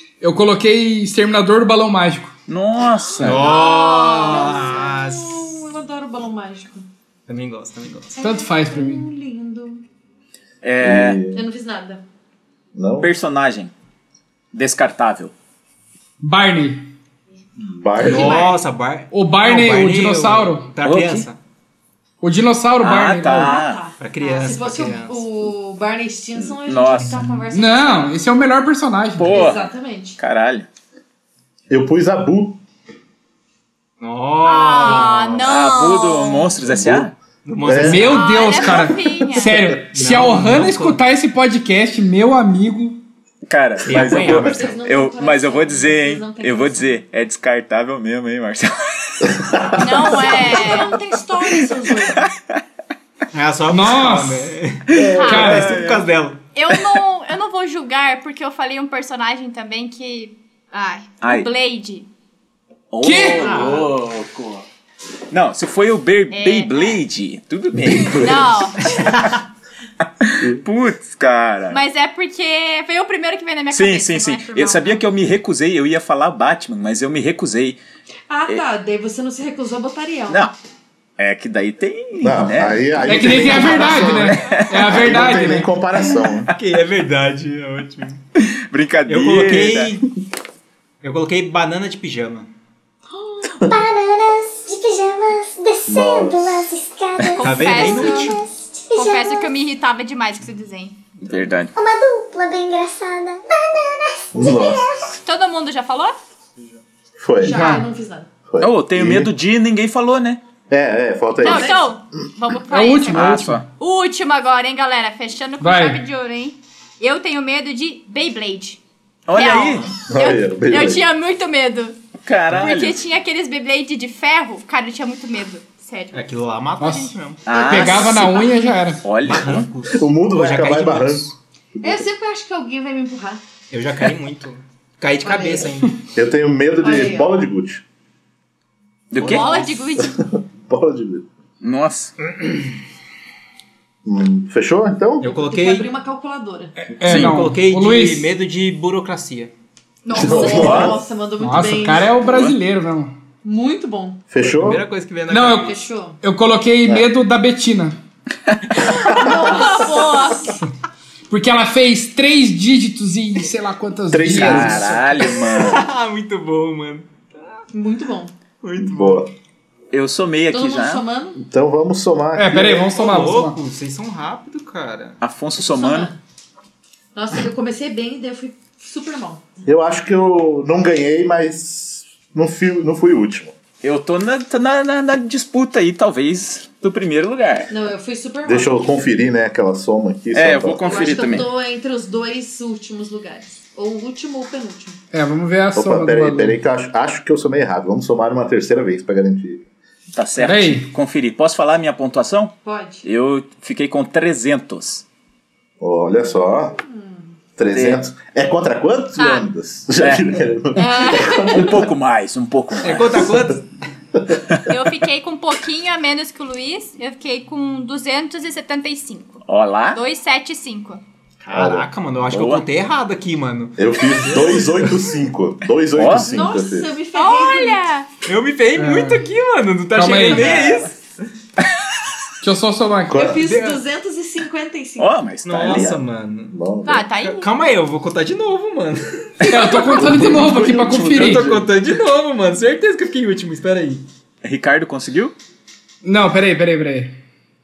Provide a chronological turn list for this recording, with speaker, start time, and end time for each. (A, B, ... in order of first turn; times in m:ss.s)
0:00.2-0:02.3 A
0:02.5-0:03.5 B
0:03.2-0:05.5 C
0:03.4-0:06.9 D
0:07.3-0:08.1 C
0:08.1-0:09.8 D
0:08.2-0:09.0 A
0:10.6-0:11.2 B
0:10.8-0:11.4 E
0:11.3-0:12.0 D
0:12.7-0:13.1 E
0:13.0-0:13.7 B
0:14.5-0:15.3 B
0:16.2-0:16.8 A
0:17.6-0:18.5 E
0:18.0-0:18.5 D
0:18.0-0:21.4 C
0:19.1-0:20.7 A
0:20.8-0:21.3 B
0:22.2-0:23.6 A
0:22.8-0:23.8 B
0:23.2-0:28.1 D
0:24.0-0:25.2 C
0:26.4-0:27.2 B
0:27.5-0:29.4 A
0:29.2-0:30.7 B
0:29.3-0:30.2 D
0:31.7-0:32.6 E
0:34.0-0:35.5 C
0:34.4-0:36.5 F
0:35.4-0:37.1 B
0:36.6-0:37.1 E
0:37.4-0:38.4 C
0:37.6-0:38.2 E
0:37.8-0:43.0 A
0:38.1-0:39.6 F
0:39.0-0:39.8 E
0:39.9-0:41.0 C
0:43.5-0:49.4 B
0:43.8-0:44.7 C
0:43.9-0:44.6 E
0:44.3-0:47.0 D
0:49.3-0:50.5 E
0:49.8-0:50.9 F
0:50.1-0:52.3 D
0:53.3-0:56.4 C
0:53.7-0:54.6 A
0:54.9-0:56.1 B
0:54.9-0:55.5 E
0:55.1-0:55.6 F
0:55.2-0:55.8 A
0:56.5-1:02.1 F
1:01.2-1:01.5 B
1:02.9-1:04.6 B
1:03.0-1:03.7 A
1:03.4-1:03.9 C
1:05.3-1:08.5 B
1:06.3-1:07.0 F
1:07.8-1:08.5 E
1:08.1-1:08.8 F
1:08.9-1:09.4 C
1:10.2-1:11.8 B
1:11.7-1:15.0 F
1:13.7-1:17.8 B
1:18.3-1:20.5 D
1:21.2-1:25.2 B
1:22.2-1:26.5 E
1:23.0-1:25.7 A
1:26.5-1:28.2 C
1:28.4-1:30.0 B
1:29.1-1:30.0 C
1:31.0-1:32.5 C
1:33.1-1:33.4 D
1:33.7-1:37.4 G
1:35.9-1:36.6 E
1:37.2-1:38.1 B
1:37.3-1:38.4 F
1:37.4-1:38.4 C
1:38.2-1:39.5 G
1:38.9-1:41.0 F
1:41.2-1:41.7 B
1:41.7-1:45.1 G
1:44.3-1:45.1 E
1:45.2-1:46.2 F
1:47.2-1:47.8 E
1:47.4-1:48.3 D
1:47.5-1:47.9 A
1:48.5-1:49.3 E
1:48.6-1:50.4 B
1:50.7-1:51.8 E
1:51.4-1:58.8 F
1:51.4-1:51.8 D
1:52.7-1:53.6 A
1:53.1-1:53.6 B
1:55.6-1:56.0 A
1:59.3-1:59.9 B
1:59.3-2:02.0 F
2:00.0-2:01.0 E
2:02.2-2:03.0 B
2:02.5-2:06.2 F
2:06.1-2:07.6 C
2:06.8-2:09.0 A
2:07.4-2:08.4 B
2:07.6-2:08.3 F
2:09.0-2:09.7 B
2:09.2-2:11.3 C
2:09.9-2:12.0 E
2:11.8-2:13.4 D
2:13.7-2:16.0 C
2:15.2-2:15.7 D
2:16.1-2:17.8 E
2:16.8-2:17.3 D
2:19.1-2:19.8 B
2:19.2-2:20.2 F
2:19.3-2:19.6 C
2:20.0-2:21.3 E
2:21.6-2:22.1 B
2:24.0-2:25.3 E
2:25.2-2:25.9 C
2:25.2-2:26.7 D
2:26.8-2:28.3 A
2:27.0-2:27.4 B
2:27.0-2:29.5 C
2:30.0-2:30.9 F
2:30.1-2:32.2 D
2:30.1-2:31.0 E
2:30.4-2:30.9 B
2:31.4-2:33.1 A
2:32.2-2:32.6 B
2:33.4-2:34.2 D
2:34.3-2:34.8 E
2:34.4-2:35.8 C
2:35.3-2:38.0 A
2:35.6-2:36.2 D
2:38.8-2:40.5 F
2:39.1-2:40.3 D
2:41.3-2:45.1 A
2:44.1-2:45.2 E
2:44.3-2:45.9 B
2:45.4-2:47.6 C
2:47.7-2:48.3 D
2:48.6-2:49.3 C
2:48.8-2:49.3 E
2:49.9-2:51.0 B
2:50.5-2:51.4 D
2:51.4-2:53.0 E
2:52.4-2:53.6 A
2:52.9-2:55.2 C
2:55.2-2:56.1 B
2:55.7-2:56.2 D
2:57.1-2:59.4 D
2:59.6-3:03.6 E
3:03.8-3:07.7 B
3:07.7-3:08.8 D
3:08.4-3:11.4 E
3:10.3-3:11.5 B
3:10.9-3:15.0 D
3:15.1-3:16.6 A
3:15.7-3:19.6 E
3:20.1-3:25.0 B
3:20.4-3:20.9 A
3:22.6-3:23.0 D
3:25.8-3:26.8 E
3:26.4-3:27.4 D
3:27.6-3:31.9 E
3:27.7-3:28.0 B
3:29.2-3:29.5 F
3:30.0-3:30.4 B
3:30.7-3:31.7 F
3:31.4-3:33.3 B
3:32.8-3:33.6 C
3:34.7-3:39.4 F
3:39.4-3:40.0 B
3:39.9-3:41.0 F
3:41.4-3:45.2 C
3:41.5-3:41.9 E
3:42.3-3:42.6 B
3:43.8-3:46.9 E
3:46.0-3:46.3 B
3:46.3-3:47.8 D
3:47.1-3:48.1 F
3:48.2-3:51.2 C
3:48.8-3:49.2 A
3:49.9-3:50.6 A
3:50.2-3:50.9 B
3:52.4-3:53.3 A
3:53.1-3:53.4 E
3:53.1-3:55.1 D
3:53.4-3:53.8 C
3:55.0-3:56.0 B
3:55.4-3:56.6 C
3:55.6-3:55.9 E
3:56.5-3:57.1 E
3:56.8-3:57.5 F
3:57.2-4:04.0 C
3:59.4-3:59.8 B
3:59.4-4:01.5 A
4:00.0-4:01.7 E
4:04.4-4:05.3 B
4:06.0-4:07.2 A